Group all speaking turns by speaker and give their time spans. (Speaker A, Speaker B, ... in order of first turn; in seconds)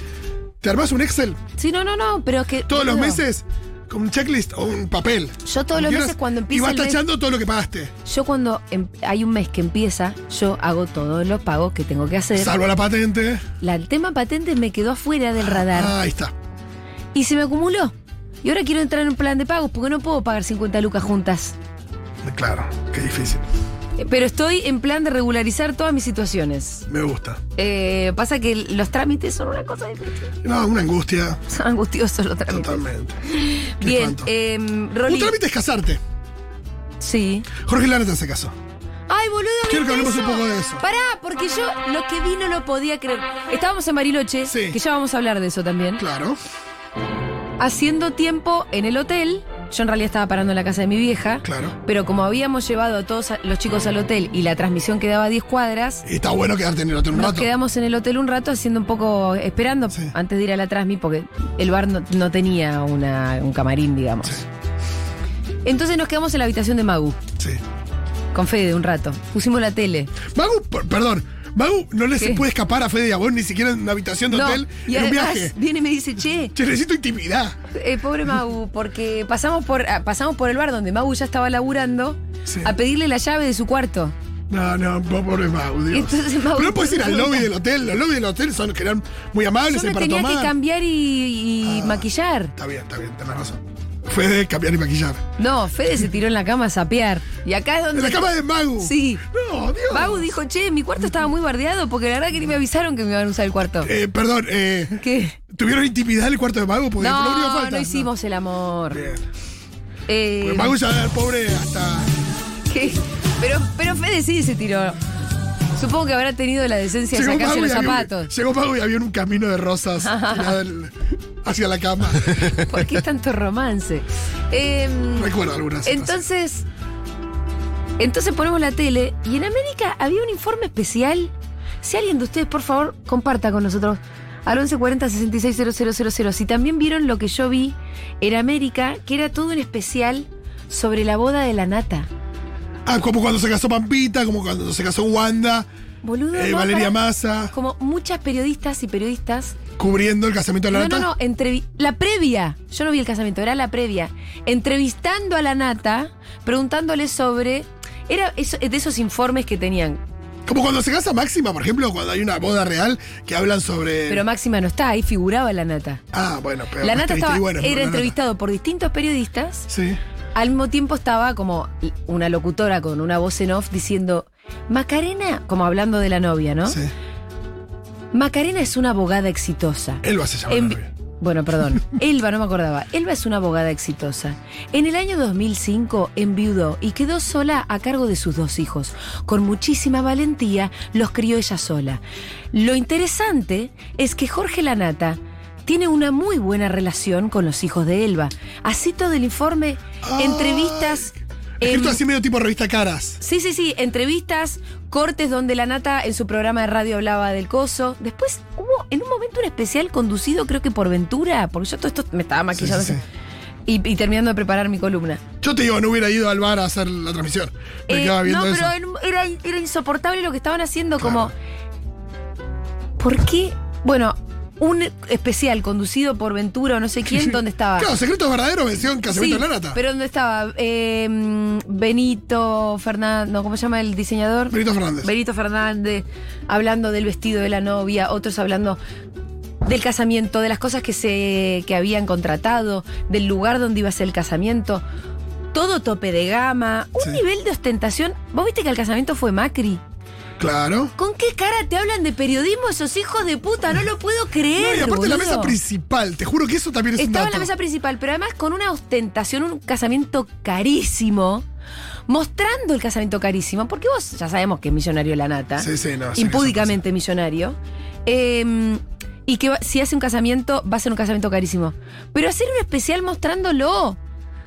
Speaker A: 0.6-1.4, 2.7-7.9, 12.4-13.5, 15.4-16.3, 22.2-23.4, 26.9-27.4, 30.4-31.4, 32.5-33.2, 33.8-34.3, 35.1-36.0, 37.6-38.5, 39.7-40.8, 44.5-44.8, 46.0-46.4, 51.4-51.8, 56.0-57.5, 70.3-75.5, 76.5-77.6, 82.5-82.7, 84.5-90.5, 91.6-92.0, 92.5-95.2, 97.9-100.3, 103.8-108.1, 108.9-109.2, 110.4-112.1, 117.1-122.6, 125.2-126.2, 142.9-145.7, 146.3-147.5, 149.8-151.1, 160.5-164.2, 166.1-168.1, 169.7-170.0, 180.0-180.9, 200.0-203.2, 212.5-213.0, 215.4-218.7, 221.0-221.3, 227.1-229.8, 234.5-235.1, 250.4-250.9, 254.5-257.5, 265.6-266.8
Speaker B: 1.6-3.2, 5.5-7.0, 8.1-12.6, 13.6-15.9, 17.1-21.6, 24.0-26.9, 27.6-30.3, 31.5-35.4, 37.0-37.5, 39.1-46.0, 47.6-56.0, 57.1-64.4, 65.6-67.2, 68.3-70.1, 72.2-72.4, 74.3-76.5, 77.7-84.1, 85.9-87.5, 89.7-92.5, 95.4-99.2, 99.9-103.9, 104.9-105.4, 107.0-109.0, 110.1-110.8, 112.7-115.0, 115.8-118.3, 120.0-120.6, 122.5-125.3, 125.8-126.7, 128.0-142.1, 146.0-147.0, 147.5-149.6, 150.7-160.0, 164.1-166.0, 166.8-169.7, 170.3-176.8, 178.1-192.0, 192.5-202.0, 203.2-213.0, 213.7-215.2, 217.9-221.3, 223.0-227.9, 229.1-238.8, 239.6-244.8, 245.5-249.8, 251.0-255.6, 257.0-261.4, 262.1-274.0